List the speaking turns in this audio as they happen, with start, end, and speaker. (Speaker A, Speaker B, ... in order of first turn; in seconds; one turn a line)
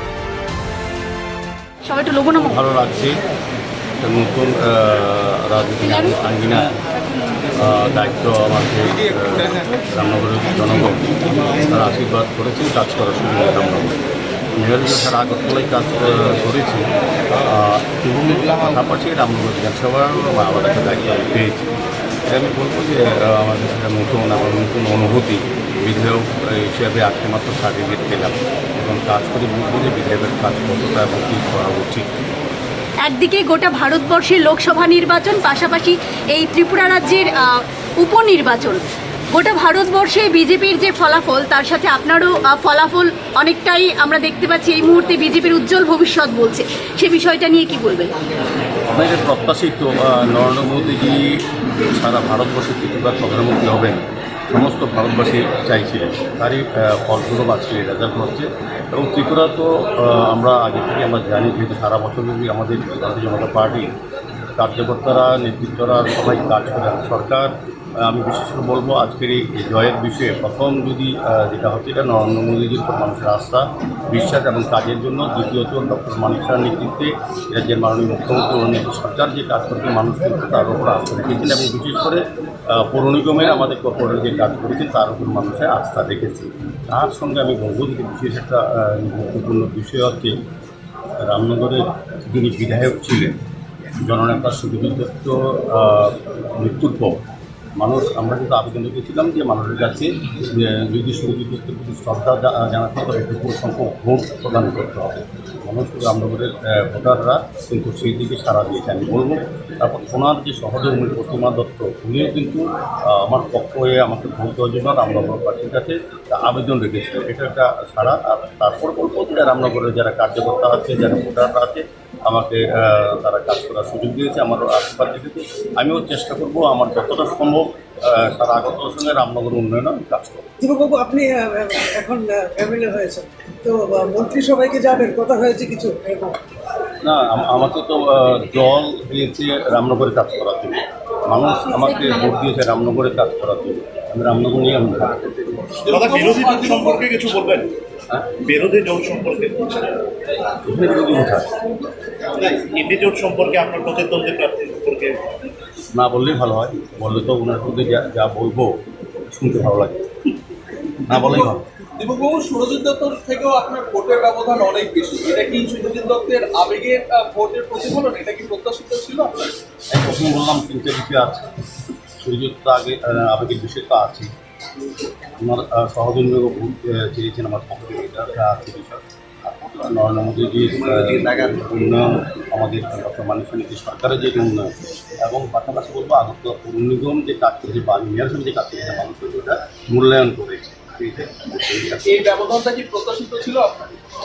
Speaker A: 1.9-2.5
Speaker B: 2.4-3.2
Speaker B: 4.0-6.8
Speaker B: 7.5-14.0
Speaker B: 14.5-16.9
Speaker B: 17.4-21.7
Speaker B: 22.3-32.1
Speaker A: 33.0-48.1
Speaker B: 48.9-54.0
Speaker B: 54.5-63.9
Speaker B: 64.5-90.3
Speaker B: 91.2-93.4
Speaker B: 94.0-97.2
Speaker B: 97.8-130.5
Speaker C: 130.6-136.4
Speaker B: 137.0-145.8
Speaker D: 145.8-147.2
Speaker E: 145.9-147.7
Speaker B: 148.1-148.4
Speaker E: 148.4-149.9
Speaker B: 150.6-151.6
Speaker E: 152.3-155.2
Speaker B: 155.9-160.3
Speaker B: 161.1-161.6
Speaker D: 161.1-169.5
Speaker B: 169.9-171.5
Speaker B: 172.2-174.3
Speaker B: 175.2-192.1
Speaker D: 192.1-193.9